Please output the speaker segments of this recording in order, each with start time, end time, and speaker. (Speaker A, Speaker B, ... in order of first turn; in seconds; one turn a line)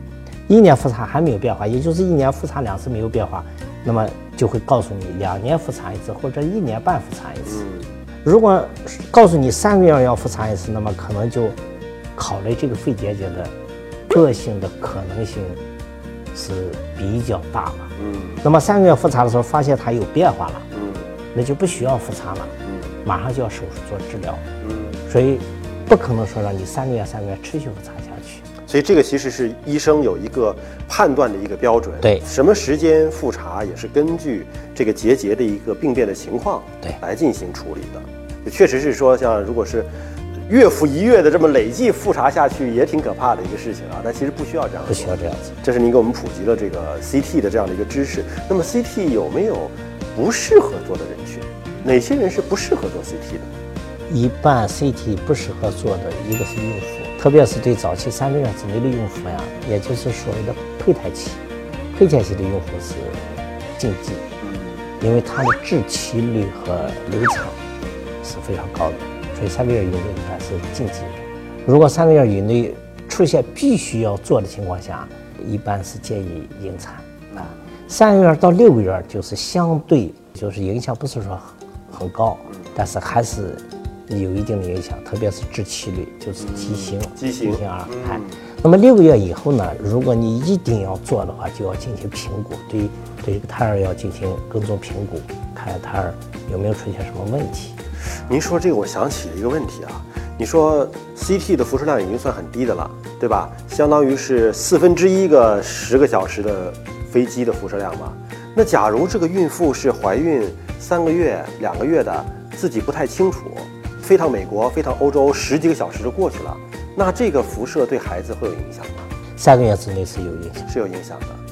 Speaker A: 0.5-7.6
Speaker B: 7.5-7.9
Speaker A: 8.2-11.6
Speaker A: 12.2-13.5
Speaker A: 14.1-15.6
Speaker A: 16.3-20.7
Speaker B: 18.0-18.4
Speaker B: 20.7-21.1
Speaker A: 21.3-24.4
Speaker B: 22.7-22.9
Speaker B: 24.6-25.0
Speaker A: 25.1-28.5
Speaker B: 28.6-39.9
Speaker B: 40.5-53.5
Speaker A: 44.9-45.6
Speaker A: 54.1-64.3
Speaker B: 64.4-64.8
Speaker A: 65.0-67.6
Speaker A: 68.2-97.8
Speaker B: 86.4-88.4
Speaker B: 98.2-119.1
Speaker A: 119.4-120.7
Speaker B: 120.7-121.4